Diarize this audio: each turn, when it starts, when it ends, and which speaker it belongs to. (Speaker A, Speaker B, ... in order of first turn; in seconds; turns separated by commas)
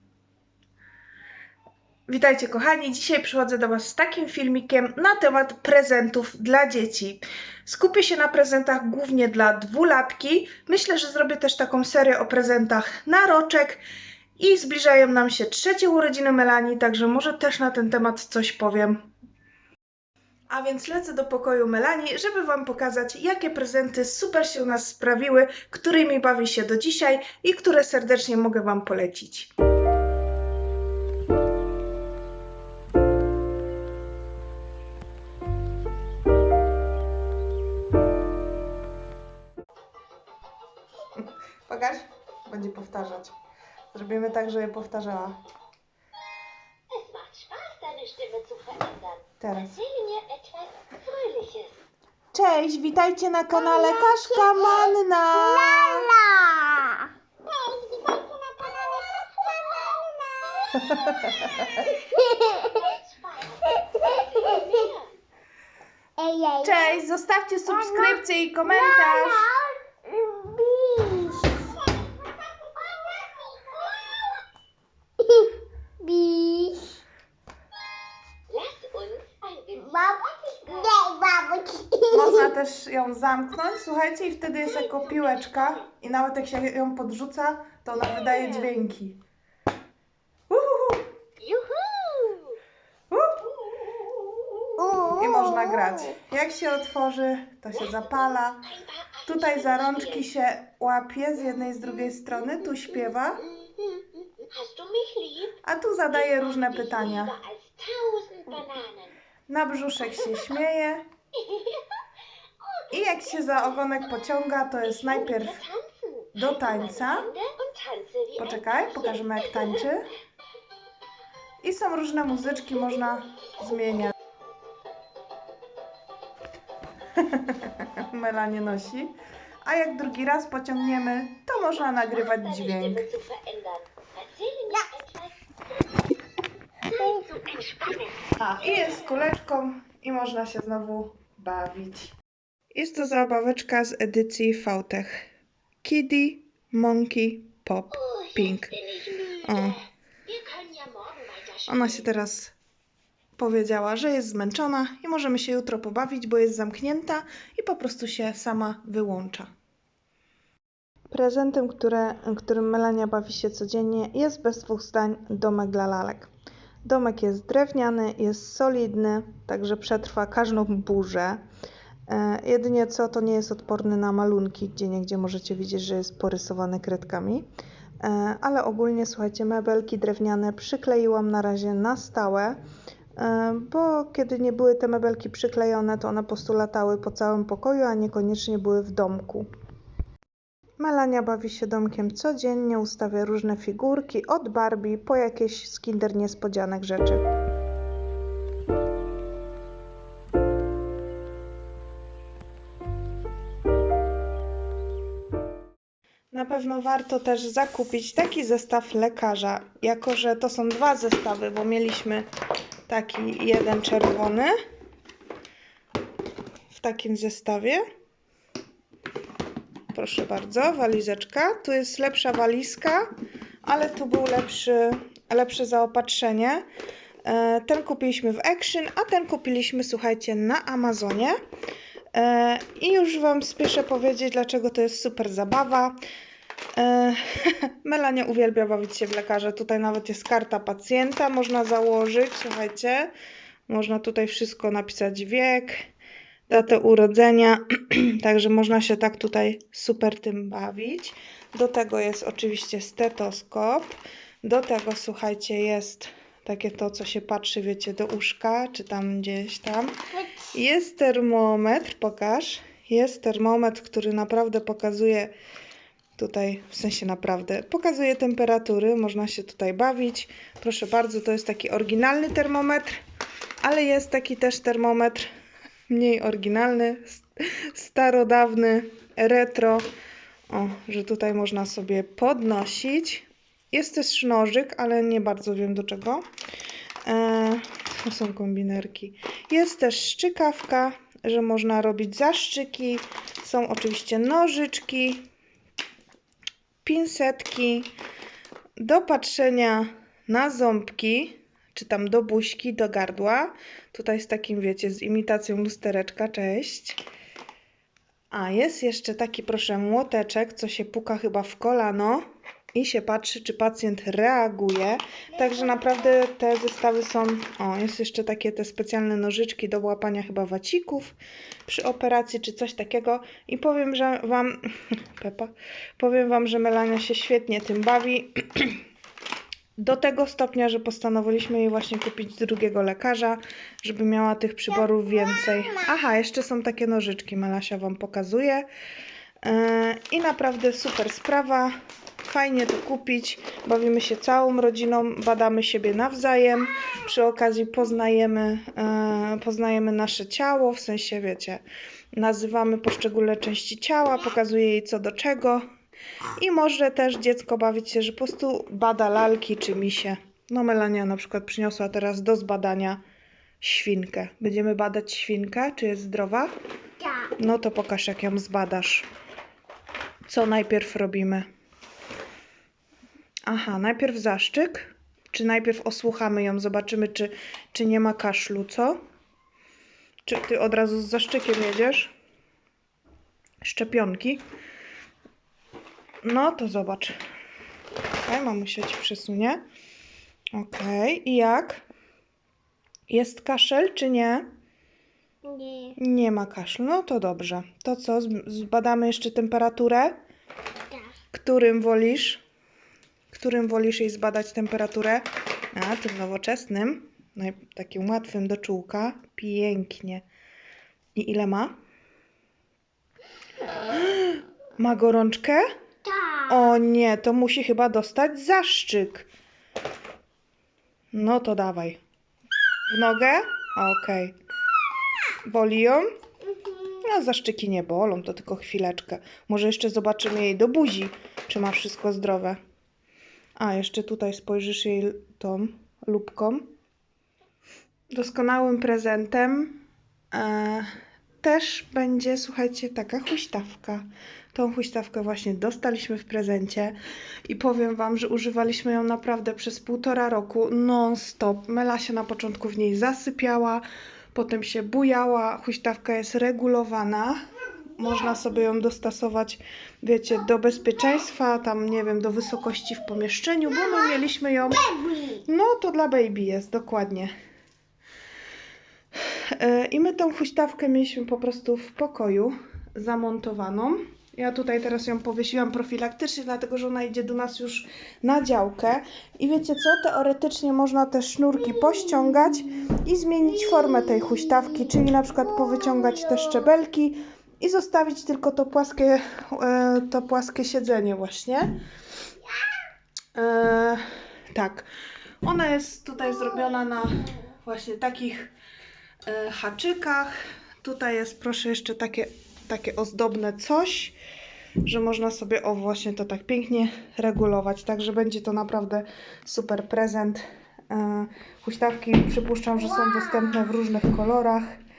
Speaker A: 2.1-13.8, Speaker A: 14.4-19.1, Speaker A: 20.5-29.5, Speaker A: 41.2-43.3, Speaker A: 43.9-45.4, Speaker B: 46.9-51.8, Speaker A: 49.4-49.8, Speaker A: 52.3-56.2, Speaker C: 55.5-57.1, Speaker B: 57.5-60.8, Speaker C: 59.5-61.1, Speaker A: 60.9-61.8, Speaker C: 62.0-62.8, Speaker B: 62.6-65.1, Speaker C: 63.9-64.7, Speaker C: 66.2-66.9, Speaker A: 66.6-69.6, Speaker C: 69.0-69.6, Speaker C: 70.1-71.6, Speaker B: 72.6-74.4, Speaker C: 75.3-76.9, Speaker B: 78.5-81.0, Speaker C: 79.9-82.4, Speaker A: 82.1-89.2, Speaker B: 84.7-85.8, Speaker B: 88.1-88.7, Speaker A: 90.5-91.1, Speaker B: 91.4-92.6, Speaker A: 93.1-93.5, Speaker B: 93.8-95.0, Speaker C: 94.8-95.3, Speaker A: 95.0-103.5, Speaker B: 97.7-100.3, Speaker B: 103.4-109.1, Speaker A: 105.6-107.4, Speaker A: 109.5-111.1, Speaker B: 111.4-112.0, Speaker B: 112.6-113.5, Speaker A: 112.9-115.6, Speaker B: 114.8-119.8, Speaker A: 116.3-117.3, Speaker A: 118.4-120.2, Speaker A: 121.6-124.1, Speaker A: 127.1-133.1, Speaker B: 131.9-136.0, Speaker B: 136.9-138.3, Speaker A: 138.3-142.2, Speaker A: 142.7-145.2, Speaker A: 145.8-148.8, Speaker B: 147.9-152.1, Speaker A: 149.3-149.8, Speaker A: 151.7-152.6, Speaker A: 153.4-159.5, Speaker A: 161.1-166.3, Speaker A: 166.8-171.4, Speaker A: 172.1-177.4, Speaker A: 178.0-182.6, Speaker A: 183.2-189.5, Speaker A: 190.8-197.2, Speaker A: 206.3-212.3, Speaker A: 212.9-214.5, Speaker A: 216.7-217.8, Speaker A: 219.9-223.1, Speaker A: 223.7-226.6, Speaker A: 227.2-231.4, Speaker A: 232.1-236.0, Speaker A: 236.8-243.1, Speaker A: 243.7-245.8, Speaker A: 246.5-265.3, Speaker A: 266.2-273.0, Speaker A: 273.6-275.3, Speaker A: 275.9-279.8, Speaker A: 280.5-286.2, Speaker A: 287.1-295.3, Speaker A: 296.8-297.9, Speaker A: 298.8-307.0, Speaker A: 308.3-321.1, Speaker A: 321.7-328.8, Speaker A: 329.8-338.7, Speaker A: 339.4-351.6, Speaker A: 352.1-355.6, Speaker A: 356.4-363.0, Speaker A: 363.6-366.5, Speaker A: 367.4-369.1, Speaker A: 370.3-371.4, Speaker A: 373.5-379.0, Speaker A: 380.2-382.1, Speaker A: 383.6-384.4, Speaker A: 386.2-387.1, Speaker A: 388.2-389.6, Speaker A: 390.5-391.8, Speaker A: 393.1-394.5, Speaker C: 395.5-395.9, Speaker A: 395.9-400.2, Speaker A: 401.3-402.4, Speaker A: 403.3-410.2, Speaker A: 411.1-411.7, Speaker A: 413.9-415.6, Speaker A: 416.4-419.3, Speaker A: 421.1-422.0, Speaker A: 422.9-424.4, Speaker A: 425.4-426.1, Speaker A: 426.9-432.6, Speaker A: 433.6-436.7, Speaker A: 438.1-440.9, Speaker A: 441.4-447.0, Speaker A: 447.5-453.8, Speaker A: 454.3-457.4, Speaker A: 458.0-467.3, Speaker A: 469.2-491.8, Speaker A: 493.4-494.9, Speaker A: 495.4-498.5, Speaker A: 499.3-504.1, Speaker A: 504.9-514.7